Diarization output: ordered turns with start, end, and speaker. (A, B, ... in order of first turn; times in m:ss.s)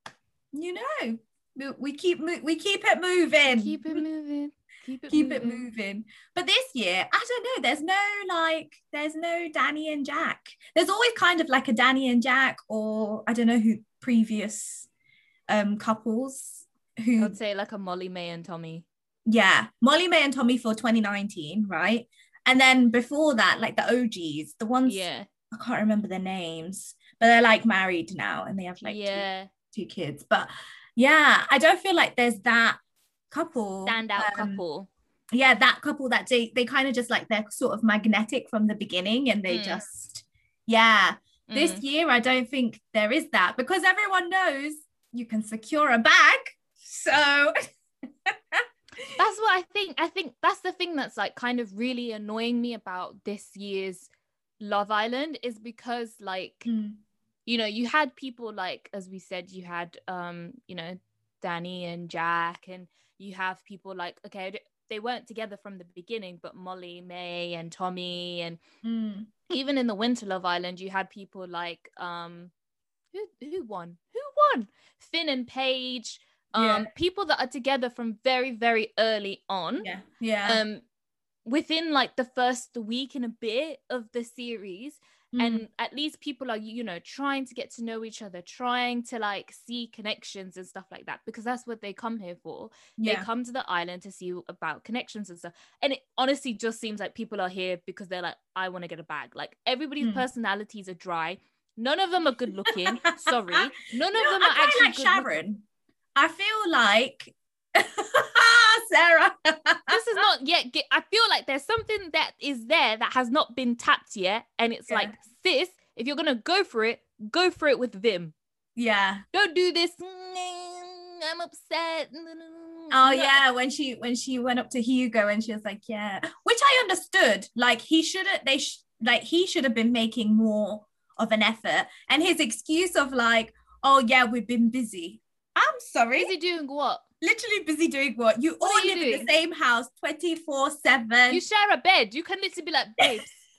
0:00.5-0:04.0 A
0:03.4-0:05.7 B
0:05.1-0:14.9 A
0:15.5-0:17.4 A
0:17.2-0:18.8 B
0:19.3-0:32.8 A
0:24.8-0:25.3 B
0:28.8-0:29.5 B
0:33.3-0:34.6 A
0:33.8-0:34.9 B
0:35.3-0:47.6 A
0:39.5-0:39.8 B
0:41.5-0:41.8 B
0:48.2-0:49.1 A
0:49.2-0:54.1 B
0:54.6-0:56.7 B
0:56.6-0:57.0 A
0:57.4-1:08.6 B
1:08.8-1:09.3 A
1:09.5-1:12.5 B
1:13.1-1:19.9 B
1:16.5-1:16.9 A
1:19.8-1:20.6 A
1:20.4-1:20.8 B
1:21.4-1:45.3 B
1:25.3-1:25.6 A
1:33.0-1:33.3 A
1:42.7-1:45.6 A
1:46.2-1:50.0 A
1:49.9-1:58.3 B
1:58.8-1:59.2 A
1:59.3-2:03.4 B
2:02.9-2:16.3 A
2:16.2-2:17.0 B
2:17.2-2:21.4 A
2:18.6-2:19.3 B
2:21.3-2:23.3 B